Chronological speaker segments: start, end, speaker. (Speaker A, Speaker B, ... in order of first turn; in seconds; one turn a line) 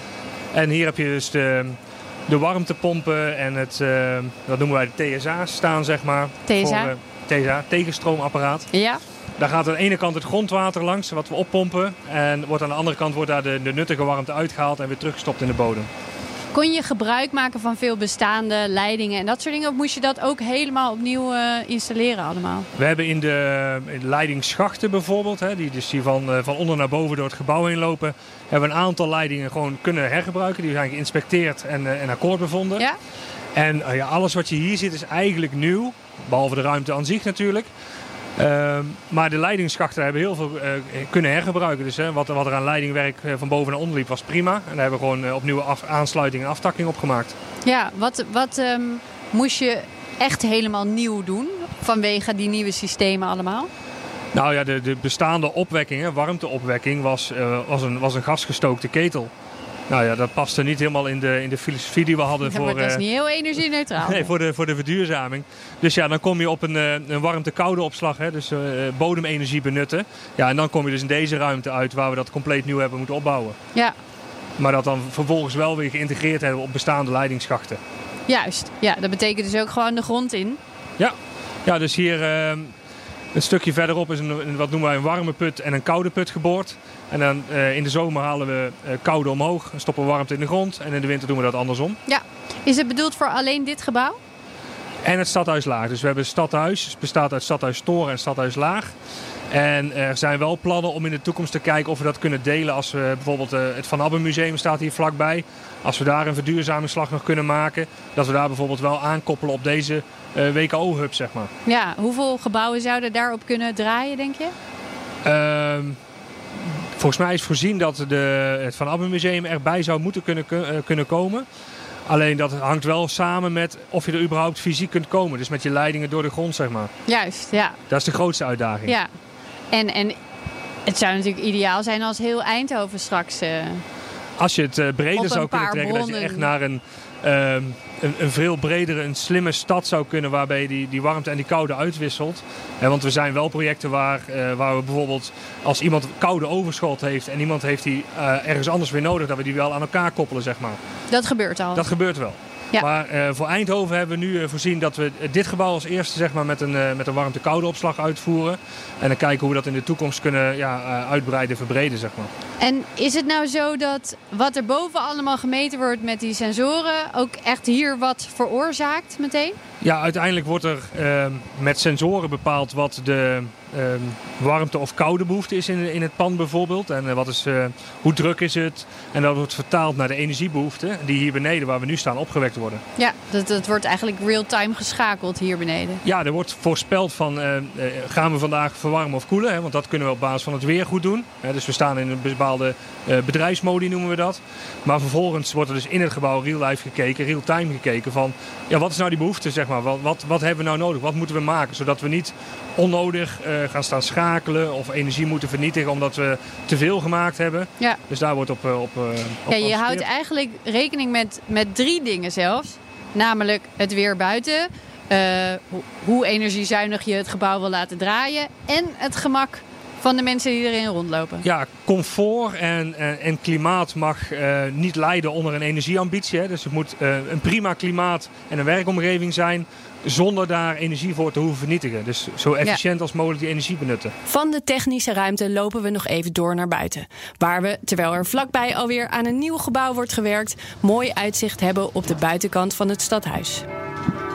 Speaker A: 0.5-1.8
Speaker A: 2.3-8.7
Speaker B: 6.5-6.9
Speaker B: 8.7-9.0
Speaker A: 9.4-15.9
Speaker B: 16.5-22.7
Speaker A: 22.8-32.9
Speaker A: 33.5-37.7
Speaker A: 38.4-47.4
Speaker B: 47.6-53.7
Speaker A: 54.3-59.3
Speaker A: 59.9-63.0
Speaker B: 62.4-64.3
Speaker A: 64.0-73.5
Speaker A: 74.6-77.8
Speaker B: 78.3-80.6
Speaker A: 81.0-82.7
Speaker A: 83.3-92.0
Speaker B: 92.1-94.2
Speaker A: 95.0-98.9
Speaker A: 99.5-111.5
Speaker B: 111.7-114.5
Speaker A: 115.2-116.0
Speaker A: 117.0-121.5
Speaker A: 122.1-126.9
Speaker B: 127.1-127.8
Speaker A: 127.9-128.9
Speaker B: 129.7-130.2
Speaker B: 130.9-133.8
Speaker A: 134.4-150.8
Speaker B: 135.2-136.5
Speaker B: 151.1-151.9
Speaker A: 151.8-162.3
Speaker B: 162.6-169.6
Speaker A: 169.8-182.8
Speaker B: 183.0-186.0
Speaker A: 186.0-210.0
Speaker B: 209.5-221.5
Speaker A: 221.4-234.1
Speaker C: 234.3-243.6